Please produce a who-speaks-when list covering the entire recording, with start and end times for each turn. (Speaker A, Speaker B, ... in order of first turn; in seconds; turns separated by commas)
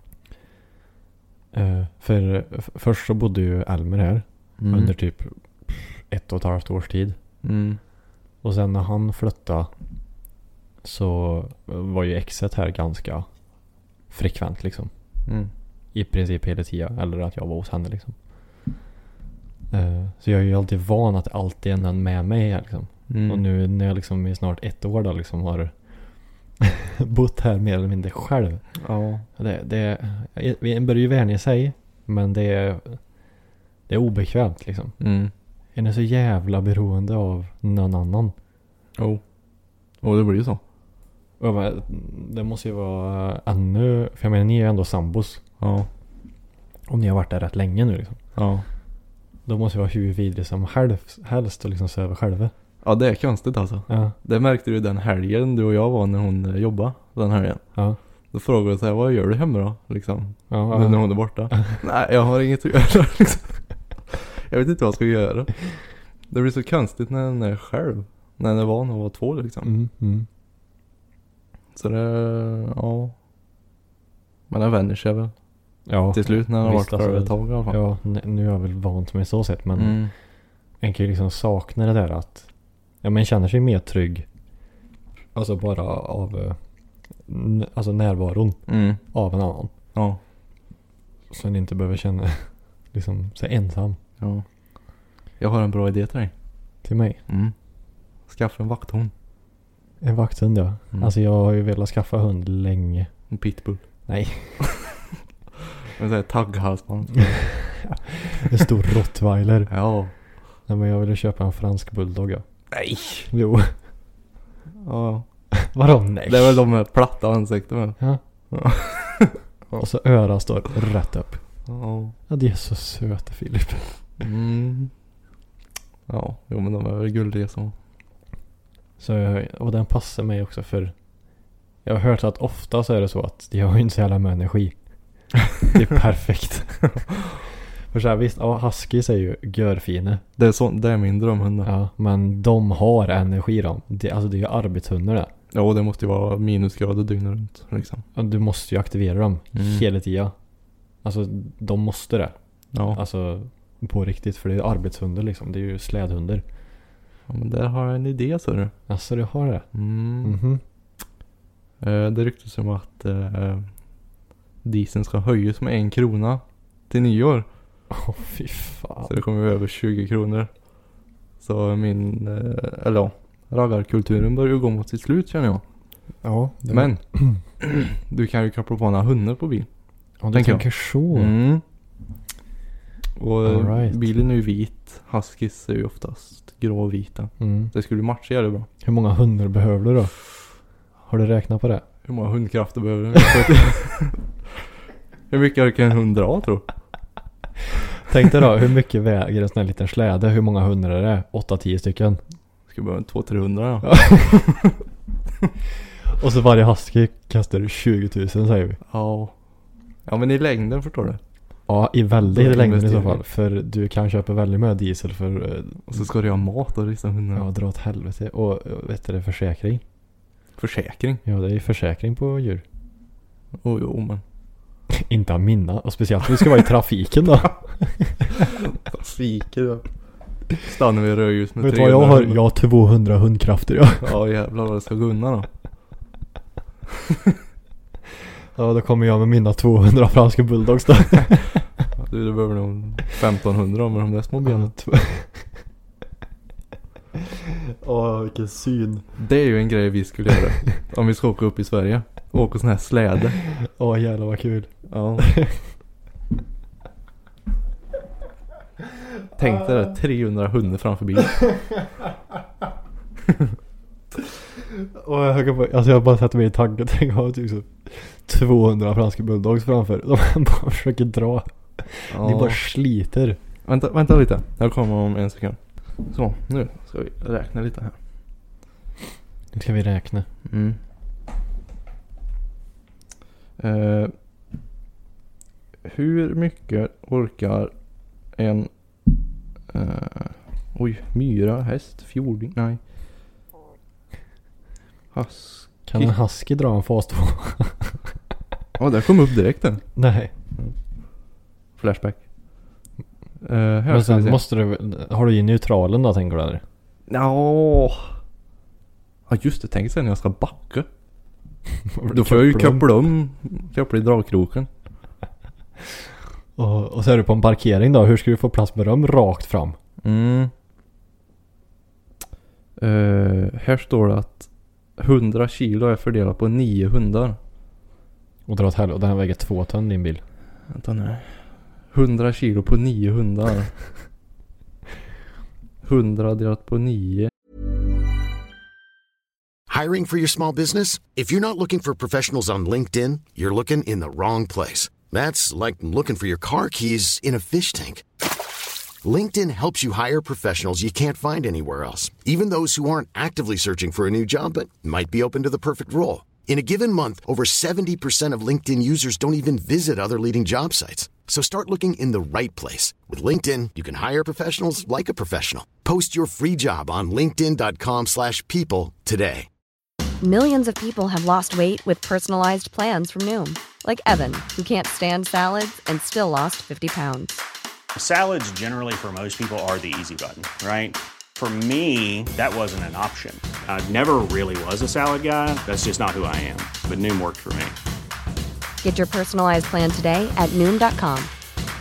Speaker A: 1.5-7.2, Speaker B: 4.6-4.9, Speaker B: 7.4-7.8, Speaker A: 8.4-9.7, Speaker A: 10.8-13.3, Speaker A: 14.1-14.9, Speaker A: 15.9-18.1, Speaker A: 19.7-25.8, Speaker B: 23.1-23.4, Speaker A: 26.6-28.8, Speaker B: 28.8-29.2, Speaker A: 29.4-33.1, Speaker A: 33.9-35.0, Speaker B: 35.0-35.3, Speaker A: 35.7-38.3, Speaker B: 39.0-39.2, Speaker B: 40.0-40.6, Speaker A: 41.4-45.4, Speaker B: 45.6-45.9, Speaker A: 46.9-48.2, Speaker B: 48.3-48.6, Speaker A: 49.5-52.5, Speaker B: 52.8-57.6, Speaker A: 53.9-54.1, Speaker B: 58.3-69.7, Speaker A: 60.5-61.8, Speaker A: 69.6-70.3, Speaker B: 71.7-73.1, Speaker B: 74.5-75.3, Speaker A: 75.9-80.0, Speaker B: 76.1-77.8, Speaker B: 79.8-80.1, Speaker A: 80.8-82.5, Speaker A: 83.0-84.2, Speaker A: 85.3-86.6, Speaker A: 87.2-89.7, Speaker B: 88.7-89.0, Speaker B: 89.9-90.2, Speaker A: 91.3-94.0, Speaker B: 94.2-94.4, Speaker B: 95.4-96.3, Speaker A: 96.8-97.2, Speaker B: 97.3-97.5, Speaker B: 98.3-99.1, Speaker A: 100.0-103.1, Speaker B: 103.3-103.8, Speaker A: 104.1-104.7, Speaker B: 105.8-107.8, Speaker A: 107.3-109.7, Speaker B: 109.7-110.1, Speaker A: 110.7-112.4, Speaker B: 112.7-113.3, Speaker A: 113.3-113.7, Speaker B: 114.8-115.2, Speaker A: 115.6-116.6, Speaker B: 116.3-118.0, Speaker B: 118.5-119.8, Speaker A: 119.8-121.4, Speaker B: 121.7-122.1, Speaker A: 122.3-124.0, Speaker B: 124.2-124.9, Speaker B: 126.1-127.7, Speaker A: 129.0-131.0, Speaker A: 131.8-134.8, Speaker A: 135.6-137.0, Speaker A: 137.9-140.2, Speaker B: 140.4-141.7, Speaker A: 141.6-145.3, Speaker B: 145.5-148.0, Speaker A: 148.2-150.3, Speaker B: 149.5-149.8, Speaker A: 151.0-152.3, Speaker B: 152.7-153.0, Speaker A: 152.9-156.4, Speaker B: 157.3-158.7, Speaker A: 158.9-159.7, Speaker B: 159.7-160.4, Speaker A: 160.2-160.6, Speaker B: 161.8-163.7, Speaker B: 164.6-167.5, Speaker A: 167.9-169.1, Speaker B: 169.1-170.6, Speaker B: 171.4-175.6, Speaker A: 176.2-177.4, Speaker B: 176.7-179.7, Speaker A: 180.2-181.3, Speaker B: 180.3-181.6, Speaker B: 183.2-188.7, Speaker A: 183.4-184.0, Speaker A: 187.4-187.7, Speaker A: 188.8-190.1, Speaker A: 191.1-191.8, Speaker B: 192.0-194.3, Speaker B: 195.3-196.6, Speaker A: 198.0-202.2, Speaker B: 202.7-204.7, Speaker A: 203.8-204.4, Speaker A: 206.2-208.8, Speaker B: 208.9-209.3, Speaker B: 210.1-211.2, Speaker A: 211.7-216.0, Speaker B: 212.3-213.2, Speaker B: 215.9-217.5, Speaker A: 217.3-219.8, Speaker B: 220.6-221.2, Speaker A: 221.2-222.6, Speaker B: 223.6-224.2, Speaker A: 224.9-228.3, Speaker B: 228.4-229.9, Speaker B: 230.6-232.4, Speaker A: 231.6-234.2, Speaker B: 234.0-235.5, Speaker A: 238.5-241.7, Speaker B: 241.9-244.7, Speaker A: 244.4-245.5, Speaker A: 247.8-249.0, Speaker B: 249.2-253.4, Speaker A: 253.5-255.6, Speaker B: 254.9-255.4, Speaker B: 259.4-261.6, Speaker A: 264.8-273.4, Speaker B: 272.1-272.6, Speaker B: 273.6-278.0, Speaker A: 279.5-280.3, Speaker B: 280.5-280.8, Speaker B: 283.6-284.1, Speaker B: 285.8-287.7, Speaker B: 288.3-288.7, Speaker B: 289.7-292.8, Speaker B: 295.1-296.1, Speaker A: 295.9-298.0, Speaker B: 298.8-299.8, Speaker A: 299.9-300.3, Speaker B: 301.8-302.2, Speaker B: 303.4-304.4, Speaker A: 303.9-306.6, Speaker B: 307.1-308.1, Speaker B: 309.3-310.9, Speaker A: 311.9-312.9, Speaker B: 312.1-314.7, Speaker A: 316.6-319.8, Speaker B: 320.0-320.5, Speaker B: 322.8-327.4, Speaker A: 328.4-330.2, Speaker B: 330.7-333.7, Speaker B: 335.8-337.3, Speaker C: 339.7-348.0, Speaker C: 349.0-369.5, Speaker D: 370.2-377.4, Speaker E: 377.9-387.8, Speaker D: 388.8-391.3